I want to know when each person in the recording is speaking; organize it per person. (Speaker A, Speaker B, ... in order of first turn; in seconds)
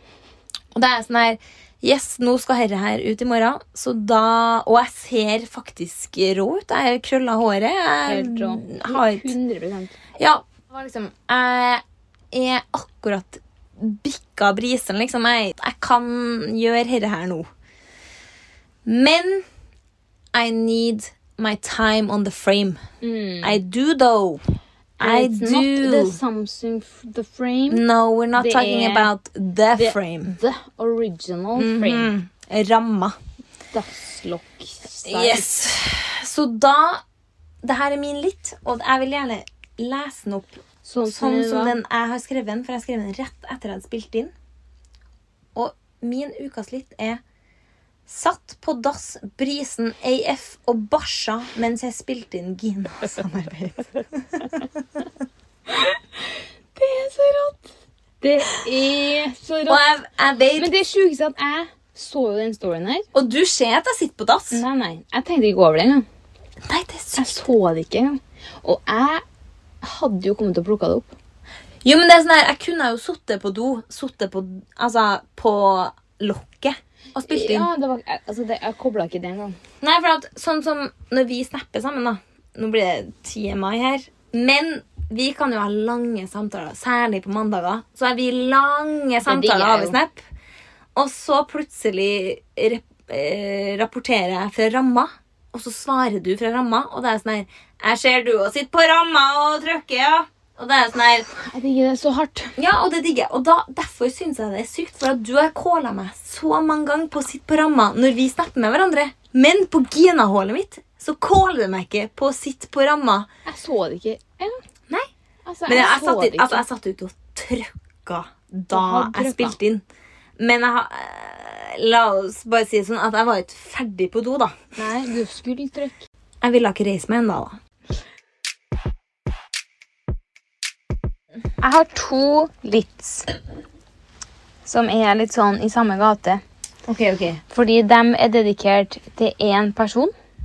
Speaker A: 0.7-9.3, 10.2-17.5, 18.8-19.4, 20.3-22.8, 23.4-24.4, 25.0-26.2, 27.7-30.3, 31.6-33.1, 35.0-37.0, 37.6-44.3, 45.5-47.2, 48.1-54.7, 59.7-60.7, 63.1-64.6, 66.7-67.3, 71.8-77.7, 79.8-90.2, 90.9-101.3, 102.6-113.3, 115.7-119.8, 120.4-124.6, 126.4-127.6, 136.9-137.4
Speaker B: 8.1-10.0, 23.0-23.6, 25.0-29.1, 29.8-32.1, 33.7-35.5, 40.8-41.8, 55.7-59.8, 60.6-63.1, 64.5-66.0, 67.2-69.2, 69.8-71.1, 77.2-79.6, 89.2-90.0, 101.3-102.5, 113.5-114.6, 115.5-116.6, 118.7-119.6, 124.8-126.0, 131.6-133.3, 134.6-136.4, 137.5-140.1